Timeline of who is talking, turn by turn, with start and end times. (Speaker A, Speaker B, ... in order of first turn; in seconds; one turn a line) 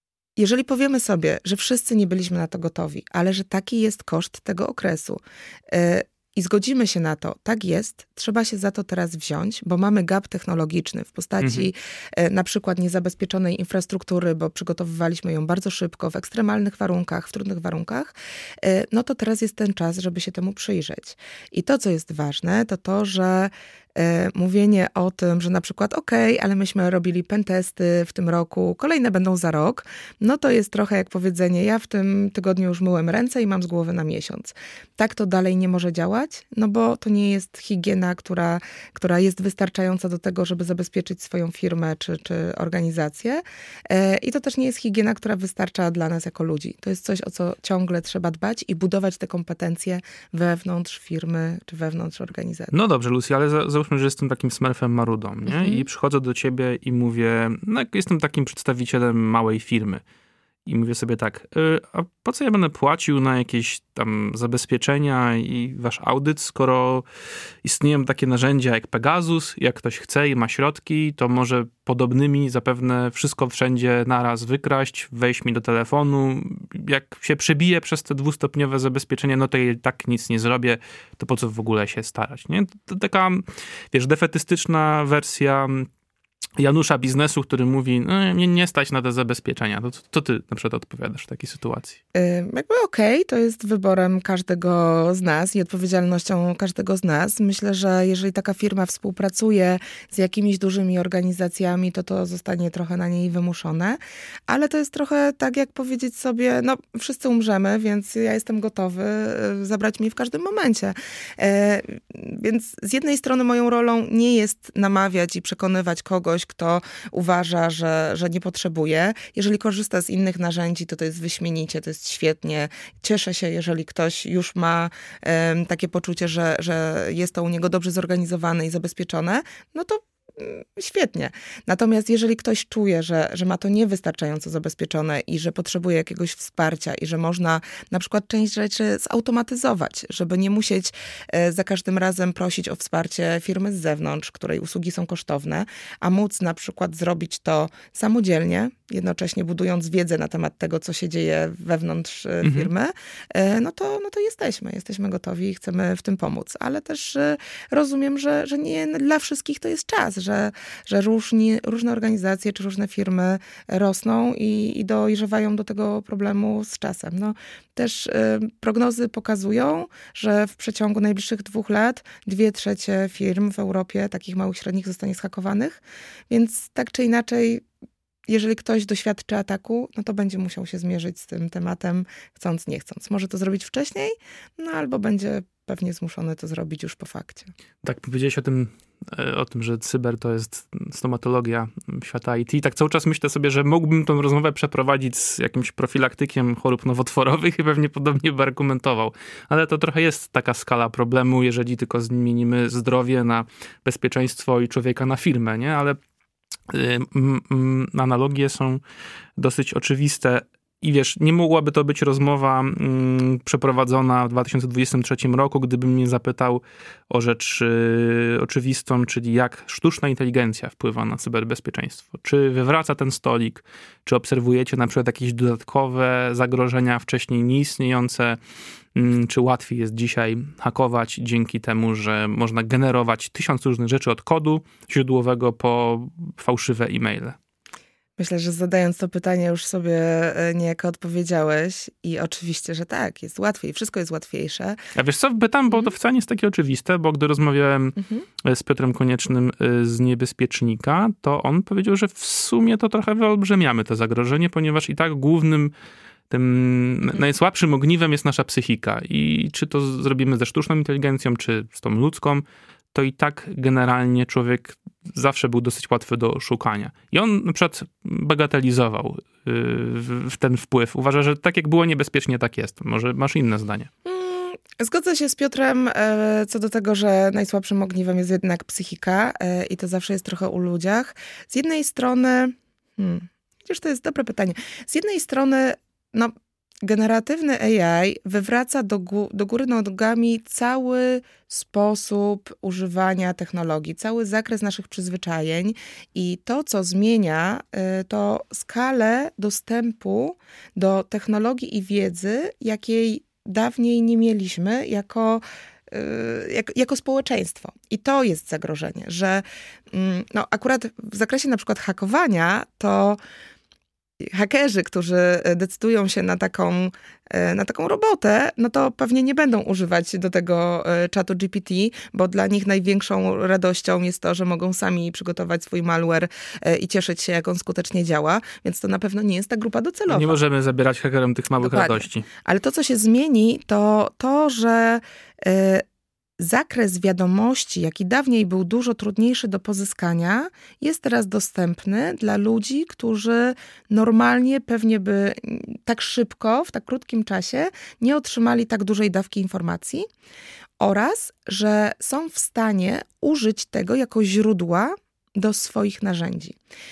Speaker A: 0.4-52.7
Speaker B: 11.4-11.7
Speaker B: 52.7-60.0
Speaker A: 55.5-55.8
Speaker B: 60.6-67.0
Speaker B: 67.6-85.9
Speaker B: 86.6-92.0
Speaker A: 92.1-177.6
Speaker B: 152.4-152.7
Speaker A: 178.3-187.5
Speaker B: 187.8-206.0
Speaker B: 206.7-208.8
Speaker B: 209.4-228.4
Speaker B: 228.9-237.4
Speaker A: 238.2-244.8
Speaker B: 244.9-255.7
Speaker A: 248.0-248.2
Speaker B: 256.3-273.9
Speaker A: 274.0-313.2
Speaker A: 314.2-330.4
Speaker B: 330.1-332.3
Speaker A: 331.6-335.8
Speaker A: 336.4-350.1
Speaker A: 350.8-356.6